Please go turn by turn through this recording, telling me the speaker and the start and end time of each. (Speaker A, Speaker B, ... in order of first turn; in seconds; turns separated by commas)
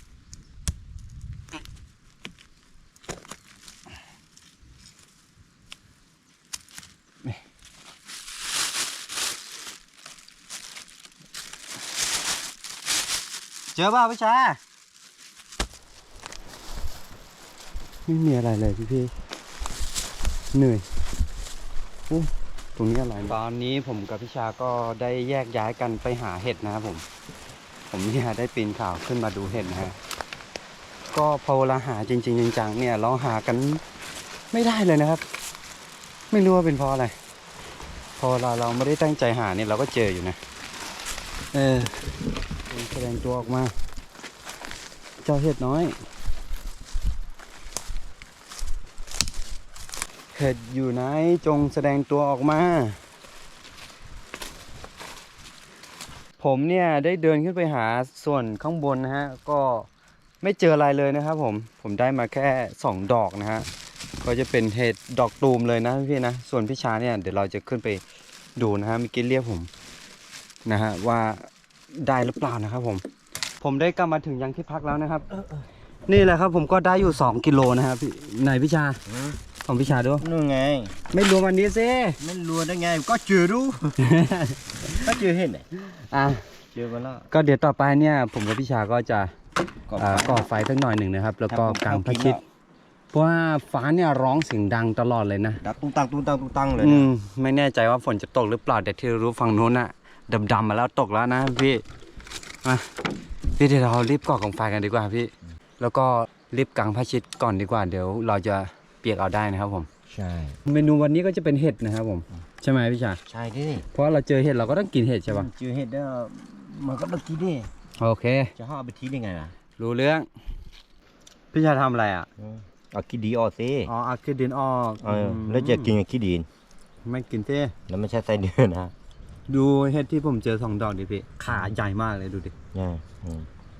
Speaker A: 13.7-14.6, Speaker A: 18.1-19.1, Speaker A: 20.5-20.9, Speaker A: 22.1-27.1, Speaker A: 27.9-30.0, Speaker A: 31.1-33.8, Speaker A: 34.5-35.2, Speaker A: 36.3-37.1, Speaker A: 38.2-40.4, Speaker A: 41.5-43.7, Speaker A: 45.2-46.0, Speaker A: 50.3-53.0, Speaker A: 56.4-59.9, Speaker A: 60.4-63.7, Speaker A: 64.2-68.0, Speaker A: 68.5-69.7, Speaker A: 70.7-73.0, Speaker A: 73.6-75.3, Speaker B: 75.4-75.6, Speaker A: 76.0-79.0, Speaker B: 79.1-79.4, Speaker A: 79.6-80.2, Speaker B: 80.2-81.0, Speaker A: 81.1-82.2, Speaker B: 82.2-84.1, Speaker A: 84.0-85.1, Speaker B: 84.8-85.7, Speaker A: 85.8-86.5, Speaker B: 86.7-87.3, Speaker A: 87.3-89.3, Speaker B: 89.9-90.4, Speaker A: 90.0-92.4, Speaker B: 91.5-92.4, Speaker A: 93.1-95.6, Speaker B: 95.6-97.1, Speaker A: 96.8-101.8, Speaker A: 102.6-109.9, Speaker B: 110.1-110.6, Speaker A: 110.7-113.2, Speaker B: 113.3-113.9, Speaker A: 113.9-115.5, Speaker B: 115.3-117.7, Speaker A: 118.0-118.5, Speaker B: 118.5-119.5, Speaker A: 119.8-120.3, Speaker A: 121.5-122.3, Speaker B: 122.4-123.9, Speaker A: 123.9-125.9, Speaker B: 125.0-126.5, Speaker A: 127.0-127.7, Speaker B: 127.9-128.9, Speaker A: 129.5-132.5, Speaker B: 132.7-133.5